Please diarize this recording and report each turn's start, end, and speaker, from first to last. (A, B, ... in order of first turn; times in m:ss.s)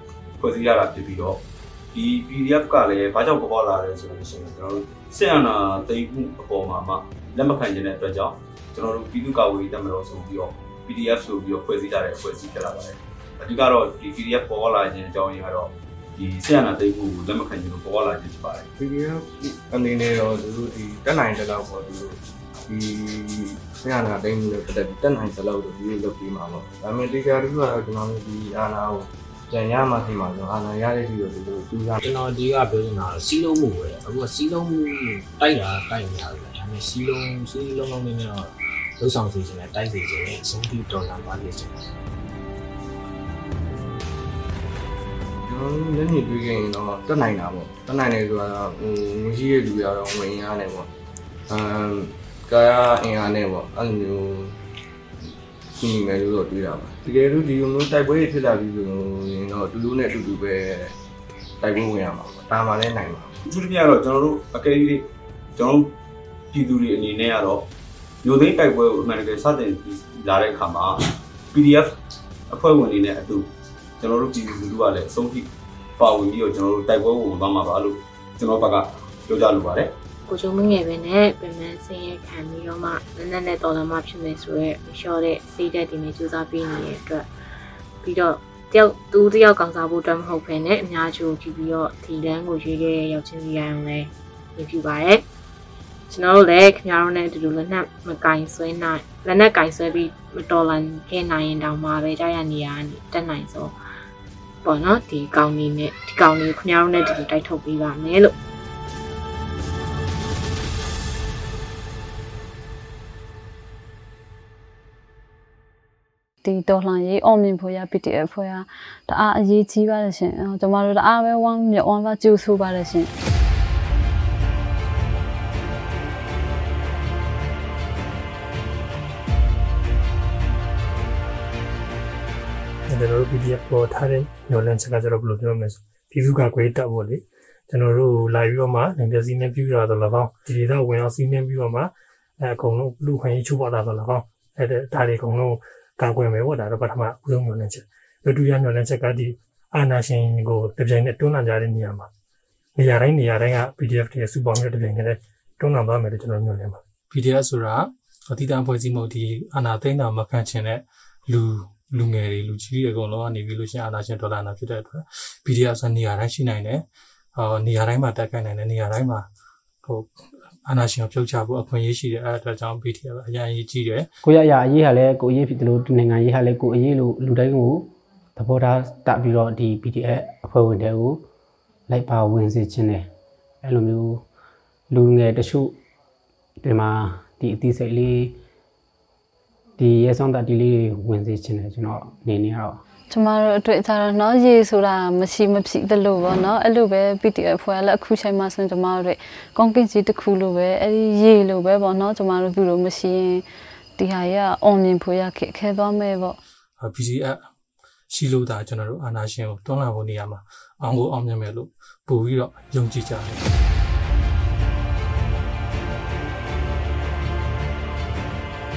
0:00.4-0:01.4 A
0:01.9-0:18.6 A
0:18.8-0:32.0 B
0:32.0-0:41.9 C
0:45.5-0:50.9 B
0:51.5-0:54.6 B
0:55.8-1:00.9 B
1:01.6-1:03.4 B
1:03.5-1:05.9 A
1:06.5-1:07.6 A
1:08.2-1:11.9 A
1:12.5-1:13.5 A
1:14.0-1:19.9 A
1:20.3-1:27.3 D
1:28.0-1:35.2 D
1:36.1-1:43.7 D
1:44.6-1:48.3 D
1:56.4-2:03.1 E
2:12.9-2:32.1 F
2:32.8-2:36.8 F
2:37.1-2:46.8 G
2:47.4-2:49.2 G
2:49.8-2:50.1 G
2:50.6-2:54.1 G
2:54.2-3:01.2 H
3:01.9-3:03.0 H
3:03.6-3:04.2 H
3:04.9-3:05.7 H
3:06.6-3:08.4 H
3:09.8-3:12.8 H
3:13.1-3:23.4 E
3:24.0-3:26.4 E
3:26.8-3:27.4 G
3:28.1-3:33.4 G